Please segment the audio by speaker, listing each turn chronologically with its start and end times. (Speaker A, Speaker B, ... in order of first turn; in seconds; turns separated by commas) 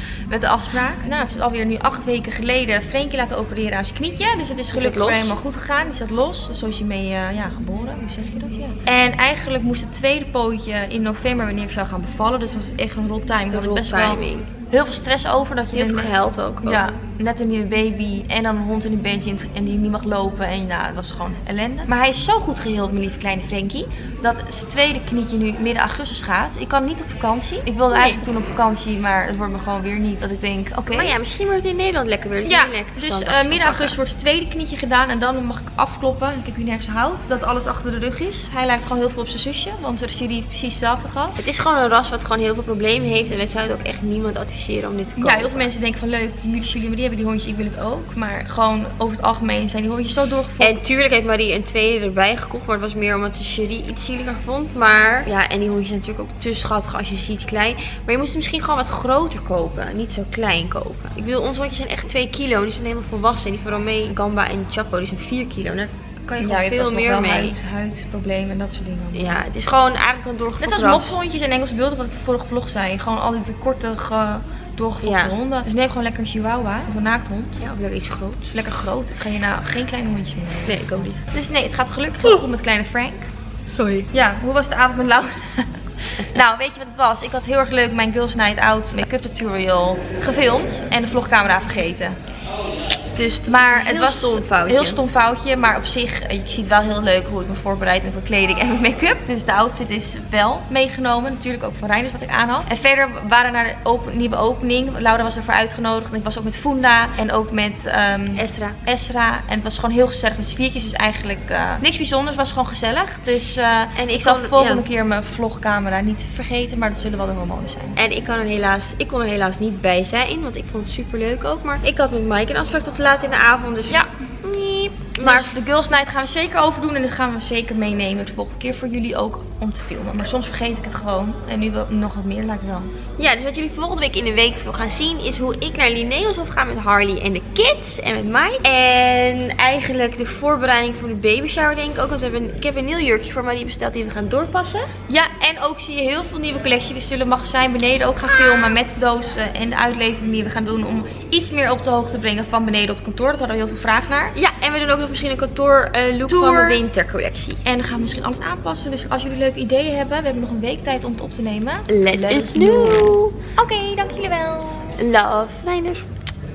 Speaker A: 0.3-16.1, Speaker B: 4.7-5.3, Speaker B: 13.5-14.5, Speaker B: 15.7-16.8, Speaker A: 16.6-31.1, Speaker B: 27.9-28.2, Speaker B: 30.9-34.0, Speaker A: 32.4-41.4, Speaker B: 41.4-45.7, Speaker A: 45.2-50.8, Speaker B: 50.6-67.6, Speaker A: 66.4-69.4, Speaker B: 69.1-71.2, Speaker A: 70.6-77.6, Speaker B: 75.0-75.3, Speaker B: 77.6-78.5, Speaker A: 78.5-80.8, Speaker B: 80.7-81.2, Speaker A: 81.3-83.2, Speaker B: 83.7-84.1, Speaker A: 84.1-92.2, Speaker B: 93.1-95.0, Speaker A: 93.5-118.0, Speaker B: 108.3-108.8, Speaker B: 114.0-114.8, Speaker B: 118.0-125.5, Speaker A: 125.2-132.9, Speaker B: 133.2-144.9, Speaker A: 145.1-154.3, Speaker B: 154.3-157.6, Speaker A: 156.3-156.8, Speaker A: 157.6-165.0, Speaker B: 161.9-163.3, Speaker B: 165.0-166.1